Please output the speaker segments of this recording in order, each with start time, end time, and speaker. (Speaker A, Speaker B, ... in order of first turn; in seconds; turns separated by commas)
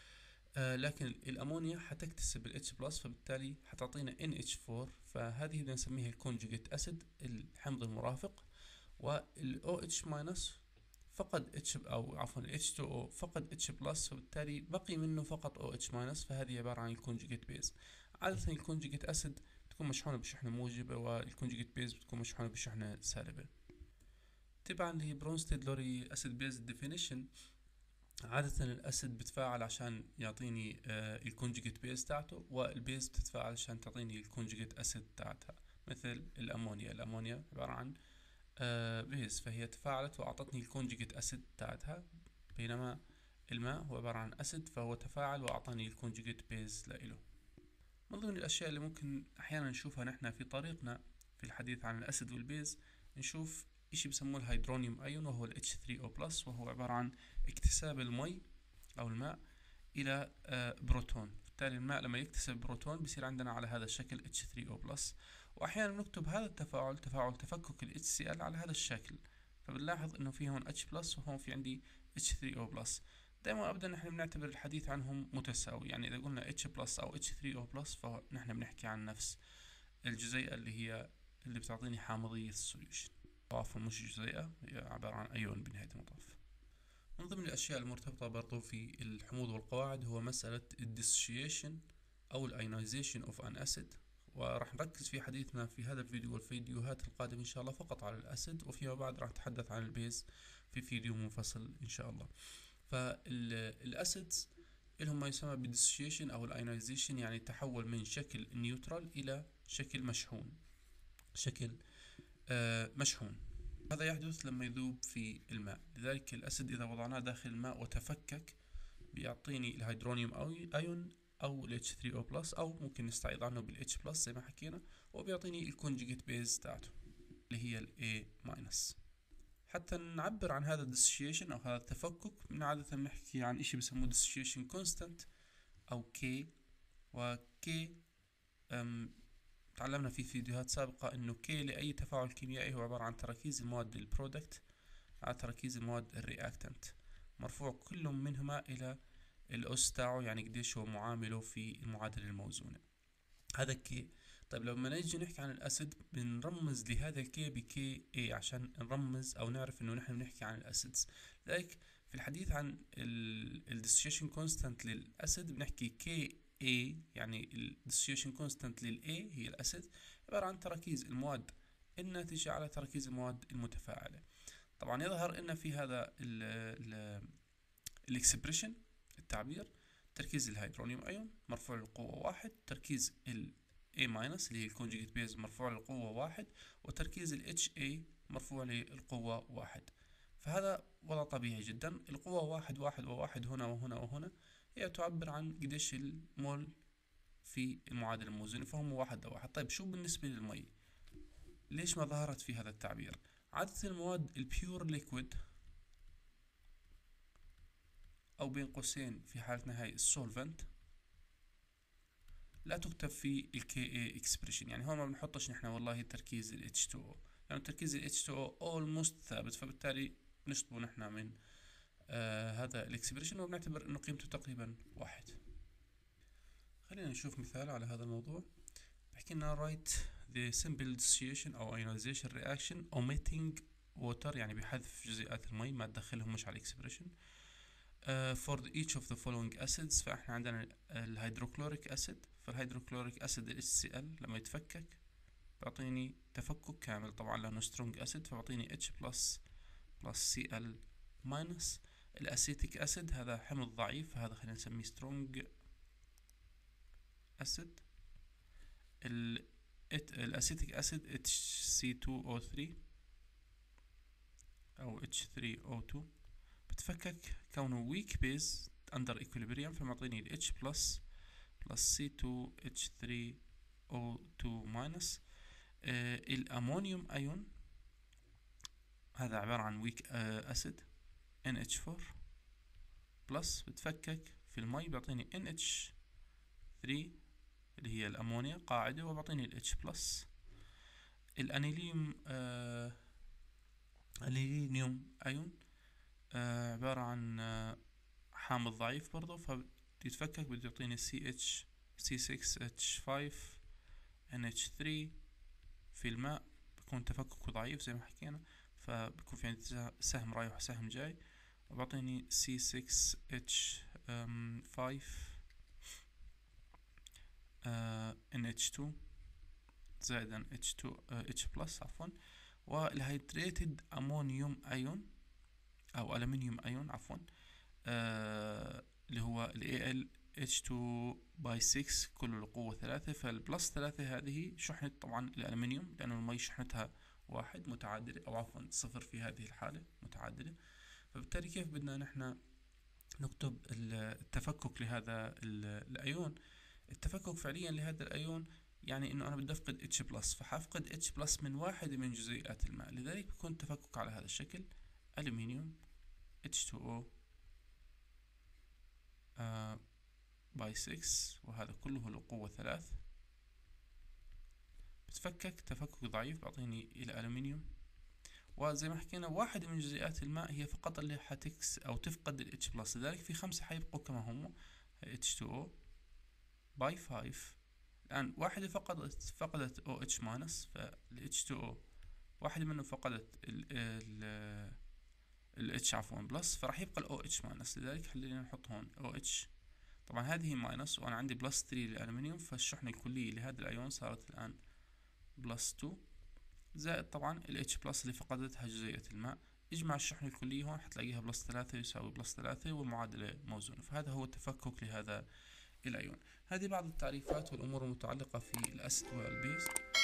Speaker A: 0.6-8.4, Speaker A: 9.0-23.5, Speaker A: 24.6-27.3, Speaker A: 28.2-38.0, Speaker A: 38.6-47.2, Speaker A: 48.1-58.4, Speaker A: 59.0-59.4, Speaker A: 59.9-79.4, Speaker A: 80.0-86.4, Speaker A: 87.2-102.3, Speaker A: 102.9-104.5, Speaker A: 105.0-110.6, Speaker A: 111.3-111.8, Speaker A: 112.5-118.6, Speaker A: 119.1-126.9, Speaker A: 127.5-129.0, Speaker A: 129.7-135.3, Speaker A: 135.9-136.5, Speaker A: 137.1-138.0, Speaker A: 138.7-139.2, Speaker A: 139.8-144.6, Speaker A: 145.2-148.9, Speaker A: 149.5-152.8, Speaker A: 153.6-174.2, Speaker A: 174.8-177.3, Speaker A: 178.1-196.7, Speaker A: 197.4-200.7, Speaker A: 201.7-205.4, Speaker A: 208.4-210.7, Speaker A: 212.6-221.4, Speaker A: 222.1-225.4, Speaker A: 226.8-228.5, Speaker A: 229.1-237.1, Speaker A: 238.0-245.0, Speaker A: 245.6-249.4, Speaker A: 250.0-255.5, Speaker A: 257.4-257.8, Speaker A: 259.0-262.8, Speaker A: 264.8-266.1, Speaker A: 266.7-271.0, Speaker A: 271.6-275.2, Speaker A: 275.8-277.5, Speaker A: 279.1-280.9, Speaker A: 281.4-282.1, Speaker A: 283.3-285.9, Speaker A: 286.8-287.2, Speaker A: 287.8-290.3, Speaker A: 291.4-293.0, Speaker A: 294.2-295.6, Speaker A: 296.3-297.8, Speaker A: 298.3-303.6, Speaker A: 304.3-305.2, Speaker A: 305.9-311.2, Speaker A: 311.7-315.4, Speaker A: 317.6-319.0, Speaker A: 320.0-325.1, Speaker A: 325.9-327.2, Speaker A: 327.9-340.6, Speaker A: 341.1-342.4, Speaker A: 343.2-346.4, Speaker A: 346.9-355.8, Speaker A: 356.4-357.1, Speaker A: 359.4-359.9, Speaker A: 360.5-363.0, Speaker A: 365.1-367.6, Speaker A: 368.6-375.7, Speaker A: 376.8-381.8, Speaker A: 382.4-384.8, Speaker A: 385.6-389.5, Speaker A: 390.1-394.6, Speaker A: 395.4-396.0, Speaker A: 396.7-405.2, Speaker A: 405.8-409.7